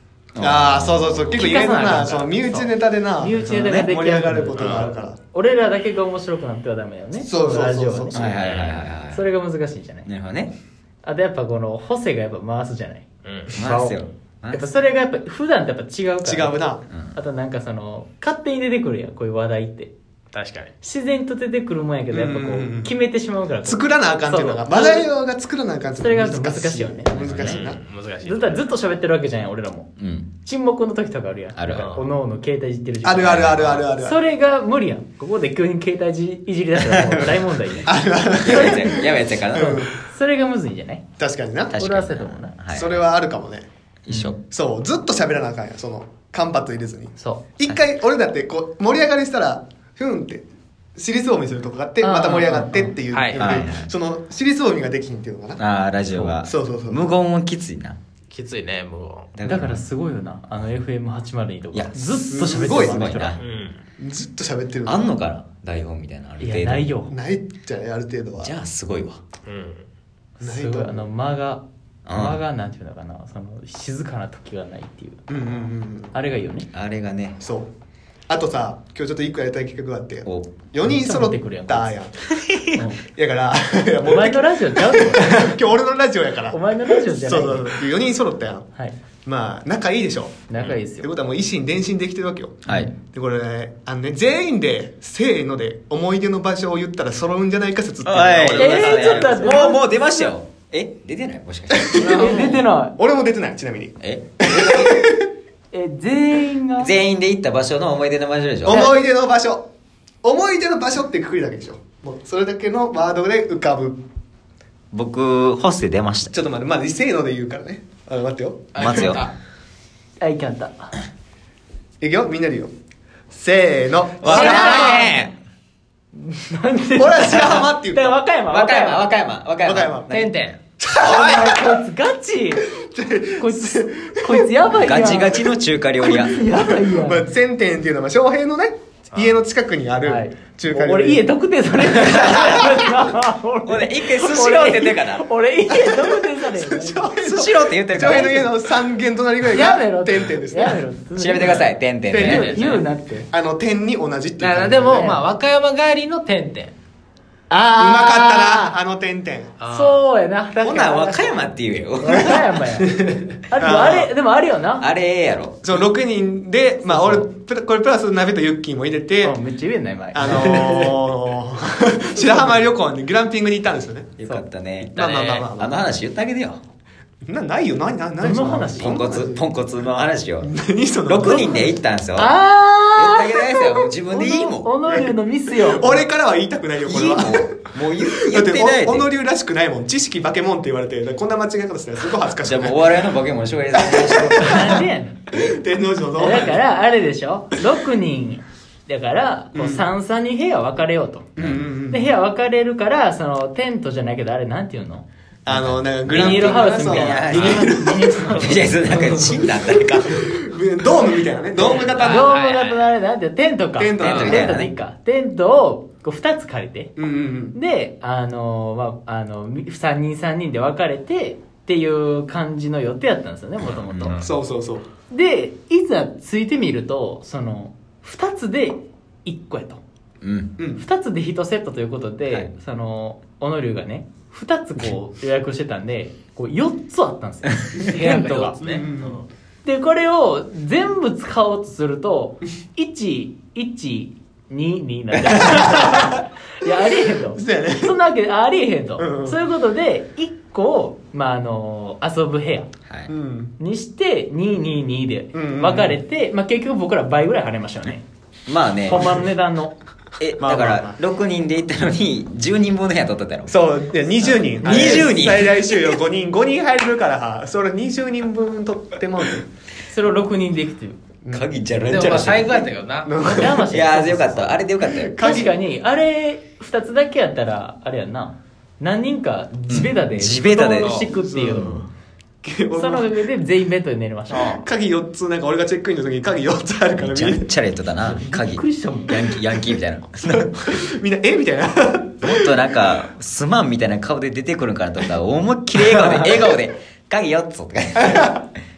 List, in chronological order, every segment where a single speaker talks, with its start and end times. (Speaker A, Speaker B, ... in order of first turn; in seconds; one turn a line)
Speaker A: 0.4-1.7
Speaker B: 0.4-5.2
Speaker C: 1.4-8.3
Speaker A: 3.5-3.9
Speaker D: 4.6-4.8
Speaker B: 7.2-8.2
Speaker A: 8.1-9.2
Speaker D: 8.3-8.8
Speaker C: 9.1-10.1
Speaker A: 10.1-10.5
Speaker C: 11.0-19.9
Speaker D: 13.2-13.6
Speaker A: 13.5-14.6
Speaker B: 16.2-16.8
Speaker A: 16.9-17.2
Speaker D: 20.3-20.7
Speaker C: 20.8-25.1
Speaker B: 22.1-22.9
Speaker B: 23.6-27.8
Speaker C: 26.0-27.6
Speaker A: 27.1-27.6
Speaker D: 27.4-28.6
Speaker C: 28.2-39.0
Speaker A: 30.0-30.3
Speaker A: 31.6-31.9
Speaker D: 31.7-32.1
Speaker B: 33.0-34.2
Speaker A: 33.3-33.7
Speaker A: 36.8-37.2
Speaker B: 37.9-40.0
Speaker A: 38.4-39.8
Speaker C: 39.5-41.0
Speaker B: 41.2-41.8
Speaker A: 41.7-43.1
Speaker C: 41.7-42.5
Speaker B: 42.7-43.7
Speaker A: 44.1-44.4
Speaker C: 44.1-44.4
Speaker B: 44.5-50.5
Speaker C: 47.2-47.5
Speaker B: 51.0-55.6
Speaker C: 52.0-53.0
Speaker D: 53.1-53.6
Speaker A: 53.4-53.9
Speaker A: 55.6-58.0
Speaker B: 56.4-57.0
Speaker D: 58.3-59.3
Speaker A: 59.4-59.8
Speaker C: 59.5-63.4
Speaker A: 61.7-63.4
Speaker B: 62.3-63.1
Speaker D: 63.4-63.8
Speaker B: 64.0-65.0
Speaker A: 64.9-66.9
Speaker C: 66.4-67.1
Speaker B: 67.1-68.5
Speaker A: 68.4-69.2
Speaker D: 69.5-69.9
Speaker C: 70.4-75.3
Speaker B: 70.4-71.0
Speaker A: 72.1-72.4
Speaker B: 75.3-76.1
Speaker C: 76.1-76.7
Speaker A: 76.7-77.4
Speaker B: 77.4-77.7
Speaker B: 78.3-82.2
Speaker A: 80.2-80.6
Speaker C: 80.8-81.9
Speaker A: 82.5-82.7
Speaker C: 82.8-83.0
Speaker B: 83.1-88.7
Speaker C: 84.0-85.6
Speaker C: 86.5-87.8
Speaker B: 89.2-90.4
Speaker C: 90.5-91.1
Speaker B: 91.0-99.5
Speaker A: 92.7-92.9
Speaker C: 92.7-92.9
Speaker A: 98.0-102.6
Speaker C: 98.5-100.3
Speaker B: 101.8-105.2
Speaker D: 102.0-102.4
Speaker C: 102.0-103.0
Speaker A: 104.0-105.0
Speaker C: 105.7-107.0
Speaker A: 106.8-108.9
Speaker B: 108.7-109.7
Speaker C: 108.7-108.9
Speaker B: 110.2-114.0
Speaker A: 114.9-116.3
Speaker B: 116.3-119.2
Speaker D: 118.7-119.3
Speaker A: 118.8-119.2
Speaker C: 120.2-120.9
Speaker B: 122.0-122.7
Speaker B: 123.3-125.1
Speaker A: 124.2-125.3
Speaker C: 124.2-125.2
Speaker C: 126.2-129.1
Speaker B: 127.0-128.2
Speaker A: 128.5-130.3
Speaker B: 129.6-130.1
Speaker D: 130.1-130.6
Speaker B: 130.8-131.8
Speaker C: 131.0-132.7
Speaker B: 132.7-134.5
Speaker C: 133.4-135.4
Speaker A: 134.7-136.4
Speaker C: 136.0-137.3
Speaker B: 136.4-141.3
Speaker D: 139.1-139.4
Speaker C: 140.0-147.1
Speaker B: 141.8-142.9
Speaker A: 142.0-142.7
Speaker A: 143.7-145.2
Speaker B: 145.7-150.8
Speaker A: 147.2-148.6
Speaker C: 148.0-148.4
Speaker C: 149.4-153.3
Speaker A: 151.2-152.8
Speaker B: 152.1-155.1
Speaker D: 152.3-152.6
Speaker D: 154.4-156.7
Speaker C: 154.8-155.2
Speaker C: 157.5-158.7
Speaker B: 157.8-159.5
Speaker D: 159.6-160.0
Speaker C: 159.7-164.9
Speaker B: 160.6-161.0
Speaker A: 160.8-162.3
Speaker B: 162.2-164.1
Speaker A: 164.8-165.7
Speaker B: 165.6-169.4
Speaker C: 166.8-167.3
Speaker C: 169.2-170.9
Speaker B: 170.1-174.1
Speaker C: 172.2-172.6
Speaker A: 174.2-176.6
Speaker B: 174.8-175.8
Speaker D: 175.0-175.5
Speaker B: 177.2-179.5
Speaker C: 178.2-179.1
Speaker A: 178.7-180.5
Speaker B: 180.4-181.7
Speaker A: 181.1-182.4
Speaker C: 182.2-186.1
Speaker A: 182.9-184.7
Speaker B: 184.9-193.1
Speaker A: 186.8-189.1
Speaker A: 192.4-195.5
Speaker B: 193.8-194.8
Speaker C: 194.4-195.4
Speaker B: 195.3-196.6
Speaker C: 196.2-201.3
Speaker B: 199.6-199.8
Speaker B: 201.4-202.1
Speaker A: 201.4-201.7
Speaker C: 201.9-205.1
Speaker B: 205.5-212.3
Speaker A: 205.5-205.8
Speaker C: 206.0-209.4
Speaker D: 206.1-207.7
Speaker A: 206.3-207.7
Speaker A: 208.3-210.3
Speaker C: 211.6-217.0
Speaker D: 211.6-212.9
Speaker B: 213.8-214.6
Speaker A: 214.0-214.7
Speaker B: 217.0-217.6
Speaker C: 217.5-224.3
Speaker A: 223.6-224.2
Speaker B: 224.2-224.8
Speaker C: 225.1-229.8
Speaker A: 230.2-230.5
Speaker B: 230.6-230.8
Speaker C: 230.8-238.6
Speaker D: 237.8-239.2
Speaker B: 238.5-239.2
Speaker C: 239.6-252.7
Speaker B: 245.3-246.1
Speaker B: 247.3-248.0
Speaker B: 249.0-249.4
Speaker B: 253.1-253.5
Speaker C: 253.6-258.0
Speaker B: 255.3-256.0
Speaker A: 258.5-259.1
Speaker C: 258.9-259.7
Speaker B: 258.9-259.2
Speaker A: 260.2-263.5
Speaker B: 260.4-261.0
Speaker B: 263.5-269.5
Speaker C: 264.2-265.1
Speaker A: 264.6-265.9
Speaker C: 269.9-271.0
Speaker B: 271.2-273.7
Speaker A: 271.3-272.5
Speaker D: 271.9-273.6
Speaker C: 273.2-274.6
Speaker A: 273.7-275.2
Speaker B: 275.0-275.6
Speaker C: 275.1-281.9
Speaker A: 279.7-281.1
Speaker D: 280.8-281.1
Speaker B: 281.1-281.9
Speaker B: 282.4-283.2
Speaker C: 282.7-284.5
Speaker B: 284.3-287.5
Speaker D: 284.3-284.6
Speaker A: 287.0-290.6
Speaker C: 288.0-289.3
Speaker B: 290.3-292.4
Speaker A: 292.2-298.4